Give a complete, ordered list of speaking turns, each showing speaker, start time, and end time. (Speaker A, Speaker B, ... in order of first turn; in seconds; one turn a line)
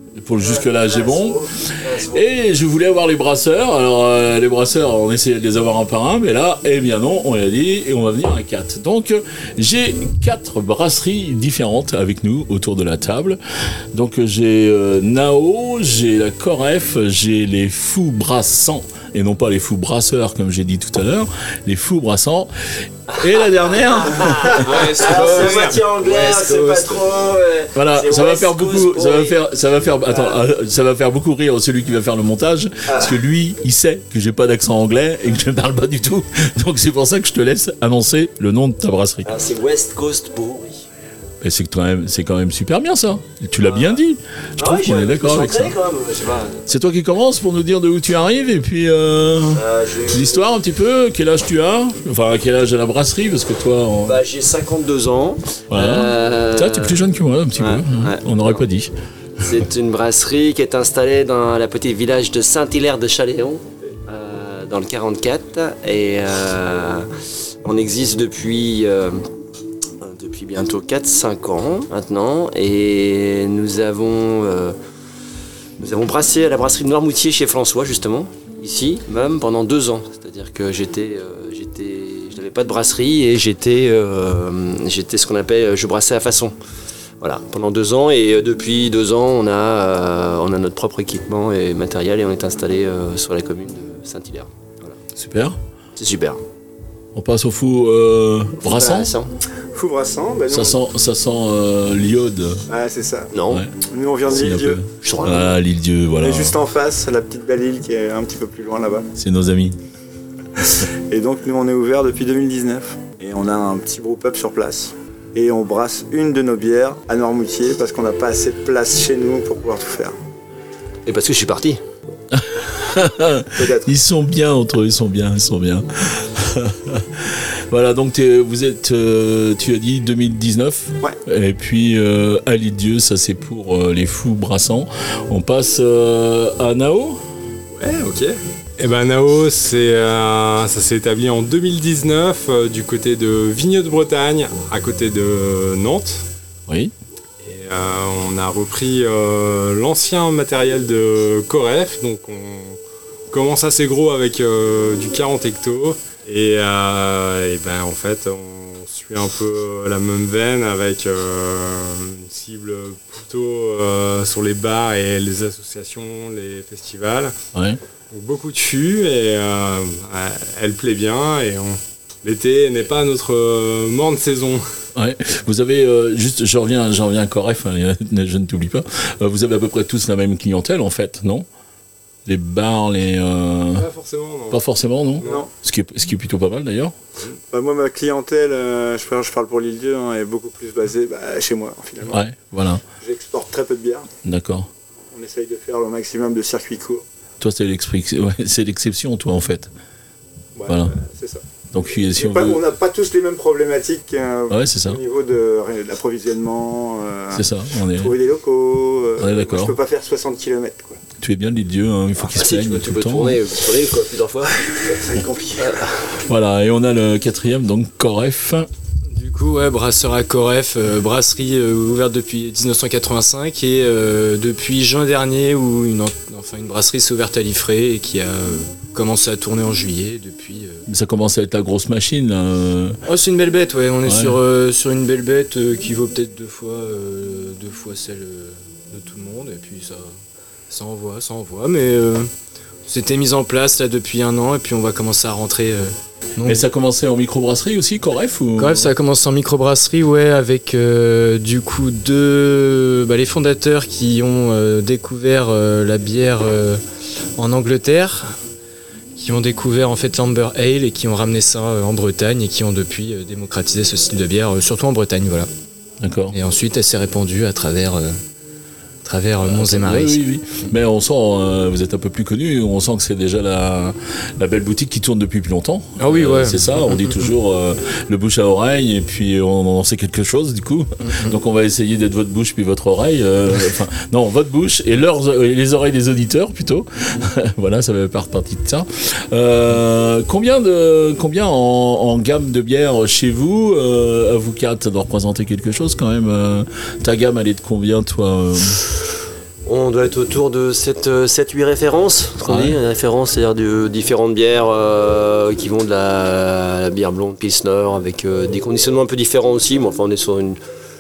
Speaker A: 0.2-13.4
Speaker B: 0.4-2.2
Speaker A: 13.9-22.5
Speaker A: 23.0-25.4
Speaker B: 23.9-29.4
Speaker C: 24.4-27.0
Speaker A: 27.8-39.3
Speaker B: 30.1-30.4
Speaker B: 39.2-40.9
Speaker A: 41.4-45.8
Speaker B: 43.6-44.0
Speaker B: 44.6-46.6
Speaker A: 46.7-54.2
Speaker B: 49.5-50.5
Speaker B: 54.0-57.0
Speaker A: 55.7-58.9
Speaker B: 57.5-58.6
Speaker B: 59.4-67.1
Speaker B: 67.6-69.2
Speaker B: 70.0-74.7
Speaker B: 75.8-86.5
Speaker B: 87.2-95.0
Speaker A: 95.2-95.6
Speaker B: 96.0-96.4
Speaker A: 97.1-99.1
Speaker B: 98.7-99.3
Speaker D: 99.7-100.8
Speaker A: 100.5-102.6
Speaker D: 102.7-104.8
Speaker B: 103.3-103.7
Speaker A: 104.3-106.5
Speaker B: 105.0-105.6
Speaker D: 106.2-109.1
Speaker A: 109.2-109.8
Speaker D: 111.1-120.2
Speaker B: 121.1-121.8
Speaker A: 122.3-137.2
Speaker D: 123.5-123.9
Speaker E: 137.8-146.2
Speaker A: 146.7-146.9
Speaker E: 147.4-152.8
Speaker E: 153.3-167.3
Speaker A: 167.5-167.8
Speaker E: 168.1-174.6
Speaker A: 174.9-181.5
Speaker A: 182.3-183.9
Speaker E: 183.7-184.6
Speaker A: 184.5-186.9
Speaker E: 185.2-185.4
Speaker D: 185.2-185.5
Speaker D: 187.5-192.2
Speaker A: 192.1-192.8
Speaker D: 193.0-194.1
Speaker A: 194.2-194.7
Speaker D: 195.1-197.1
Speaker A: 197.4-199.7
Speaker D: 200.6-211.0
Speaker A: 200.7-200.9
Speaker A: 201.7-202.6
Speaker A: 204.5-205.0
Speaker A: 207.3-208.2
Speaker A: 209.2-209.7
Speaker A: 211.2-213.4
Speaker B: 212.3-214.8
Speaker D: 214.7-215.9
Speaker A: 216.2-218.7
Speaker C: 219.2-230.8
Speaker A: 230.9-233.0
Speaker C: 233.1-240.1
Speaker A: 234.0-234.4
Speaker C: 240.7-242.3
Speaker C: 242.9-246.7
Speaker A: 246.4-248.9
Speaker C: 248.6-256.8
Speaker C: 257.4-258.4
Speaker C: 259.2-265.5
Speaker A: 266.0-266.4
Speaker C: 266.3-268.2
Speaker C: 269.1-270.2
Speaker A: 269.5-298.8
Speaker C: 276.0-277.3
Speaker C: 281.1-281.3
Speaker B: 299.6-310.6
Speaker A: 302.5-302.8